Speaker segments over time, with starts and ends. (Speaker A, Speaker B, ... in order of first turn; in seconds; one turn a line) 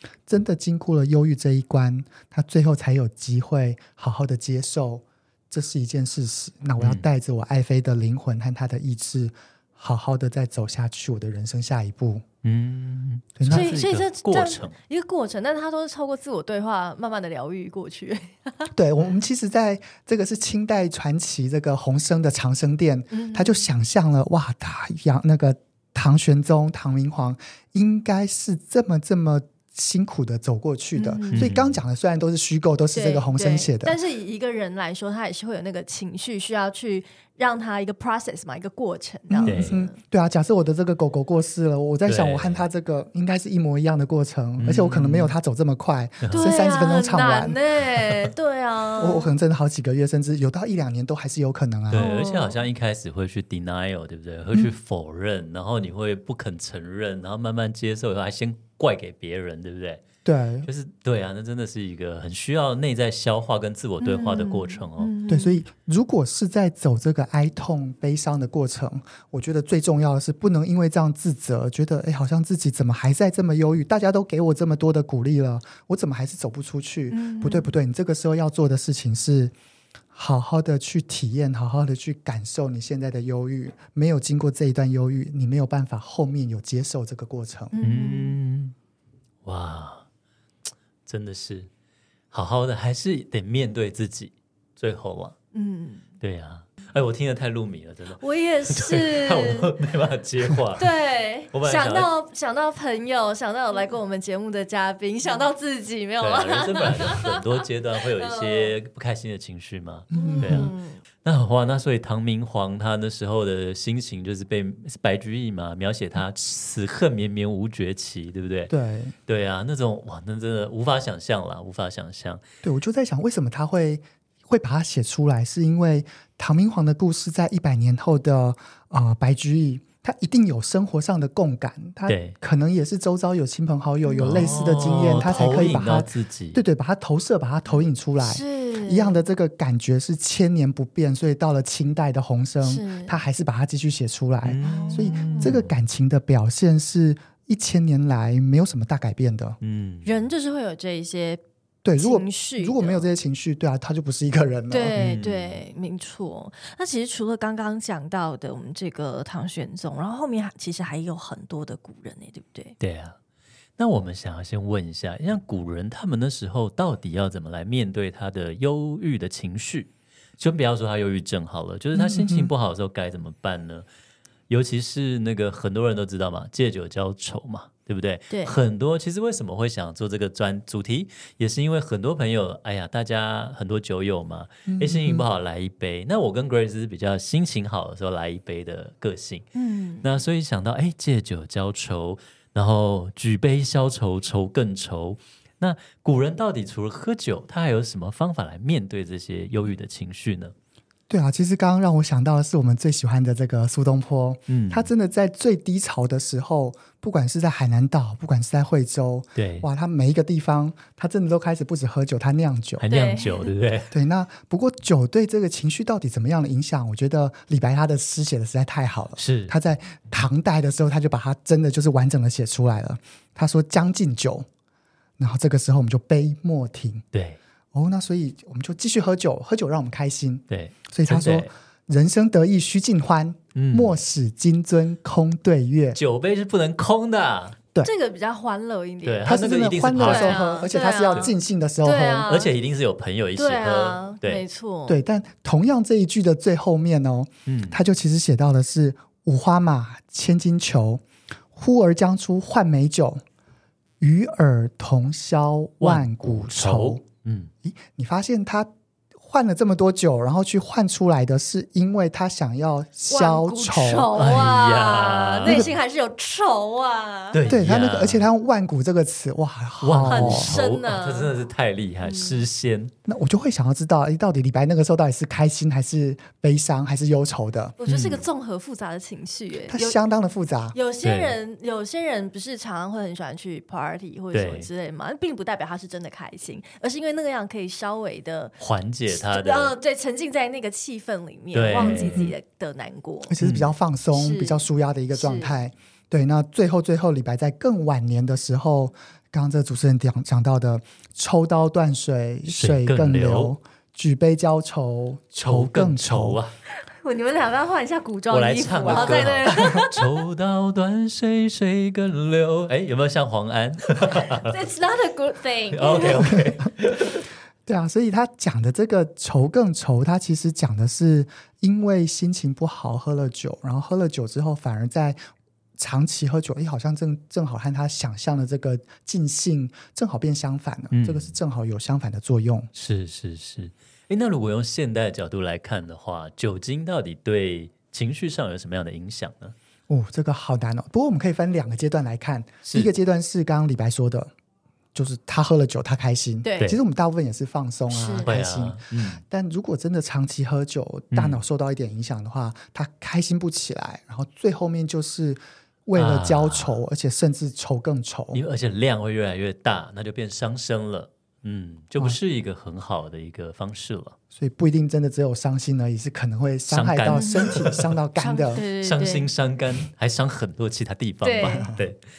Speaker A: 0.3-12.2
Speaker B: 6.8-7.0
Speaker B: 12.4-14.8
Speaker A: 13.4-13.7
Speaker C: 13.5-18.7
Speaker A: 18.7-34.0
Speaker C: 23.1-23.6
Speaker C: 30.9-31.5
Speaker B: 31.3-31.8
Speaker C: 32.9-40.0
Speaker A: 39.3-47.6
Speaker B: 39.4-39.8
Speaker B: 42.1-42.7
Speaker B: 44.6-45.3
Speaker B: 46.2-46.5
Speaker C: 46.3-49.3
Speaker A: 49.0-52.1
Speaker B: 51.9-60.0
Speaker C: 51.9-52.6
Speaker A: 60.2-60.7
Speaker B: 60.6-65.1
Speaker C: 64.0-65.6
Speaker A: 65.3-79.5
Speaker C: 77.1-77.7
Speaker A: 80.1-87.7
Speaker C: 87.7-88.4
Speaker B: 87.8-88.8
Speaker B: 89.4-90.0
Speaker B: 91.1-91.7
Speaker B: 92.3-95.3
Speaker C: 95.5-96.0
Speaker B: 96.2-100.9
Speaker C: 98.2-99.7
Speaker C: 100.8-107.5
Speaker B: 101.5-102.1
Speaker B: 106.2-118.7
Speaker C: 108.2-108.7
Speaker A: 110.1-110.7
Speaker C: 110.1-111.0
Speaker A: 118.7-119.2
Speaker B: 119.3-122.4
Speaker A: 122.6-149.6
Speaker B: 132.1-132.4
Speaker C: 134.0-134.6
Speaker B: 134.2-136.6
Speaker C: 135.3-135.7
Speaker C: 138.2-139.2
Speaker C: 142.6-143.2
Speaker B: 144.4-145.7
Speaker C: 144.6-145.6
Speaker B: 149.6-150.2
Speaker C: 150.1-151.4
Speaker A: 151.8-155.0
Speaker C: 152.0-153.1
Speaker C: 154.7-162.8
Speaker B: 154.9-155.6
Speaker B: 162.8-163.2
Speaker B: 163.8-173.9
Speaker A: 171.9-172.5
Speaker B: 174.5-189.5
Speaker C: 178.3-178.6
Speaker A: 184.7-185.3
Speaker C: 189.6-190.1
Speaker B: 190.0-200.5
Speaker A: 201.1-212.8
Speaker B: 204.5-204.9
Speaker B: 209.4-209.7
Speaker B: 212.8-213.9
Speaker C: 212.9-213.5
Speaker A: 213.9-224.5
Speaker B: 219.2-219.6
Speaker A: 225.2-227.1
Speaker B: 227.1-227.4
Speaker A: 227.7-236.0
Speaker B: 230.5-231.5
Speaker B: 233.6-234.0
Speaker B: 235.9-237.6
Speaker C: 237.8-239.4
Speaker B: 239.0-240.5
Speaker A: 239.3-242.3
Speaker C: 239.9-242.6
Speaker B: 242.3-244.4
Speaker C: 243.4-245.0
Speaker A: 244.9-251.0
Speaker B: 247.5-247.8
Speaker A: 251.6-253.2
Speaker A: 254.0-257.0
Speaker B: 255.8-257.5
Speaker A: 257.6-264.1
Speaker C: 263.1-267.4
Speaker B: 264.1-265.7
Speaker A: 265.4-265.7
Speaker B: 267.3-268.3
Speaker A: 267.5-270.6
Speaker B: 269.8-272.9
Speaker C: 270.0-271.4
Speaker C: 272.0-272.4
Speaker A: 273.1-277.8
Speaker C: 277.8-280.0
Speaker B: 277.9-278.2
Speaker A: 279.7-280.8
Speaker C: 280.7-288.6
Speaker B: 281.0-281.4
Speaker B: 284.3-284.7
Speaker B: 288.6-289.8
Speaker C: 289.1-293.4
Speaker B: 291.5-292.3
Speaker A: 291.8-292.3
Speaker A: 293.3-306.4
Speaker B: 293.4-293.7
Speaker C: 294.1-295.5
Speaker B: 302.5-303.6
Speaker B: 305.4-306.5
Speaker C: 306.9-310.0
Speaker B: 308.3-314.6
Speaker A: 308.9-309.3
Speaker C: 314.1-316.4
Speaker B: 315.7-317.2
Speaker A: 317.7-325.2
Speaker A: 325.8-332.7
Speaker B: 330.9-331.4
Speaker B: 332.7-339.6
Speaker A: 339.9-344.3
Speaker B: 342.6-342.9
Speaker A: 344.9-358.4
Speaker C: 346.4-346.7
Speaker C: 347.9-348.3
Speaker B: 348.2-349.2
Speaker B: 351.1-351.4
Speaker B: 355.9-356.8
Speaker B: 358.3-364.2
Speaker A: 364.3-368.6
Speaker B: 366.7-367.9
Speaker C: 367.1-367.6
Speaker C: 368.2-369.3
Speaker B: 368.8-372.0
Speaker C: 371.2-371.7
Speaker A: 371.5-371.8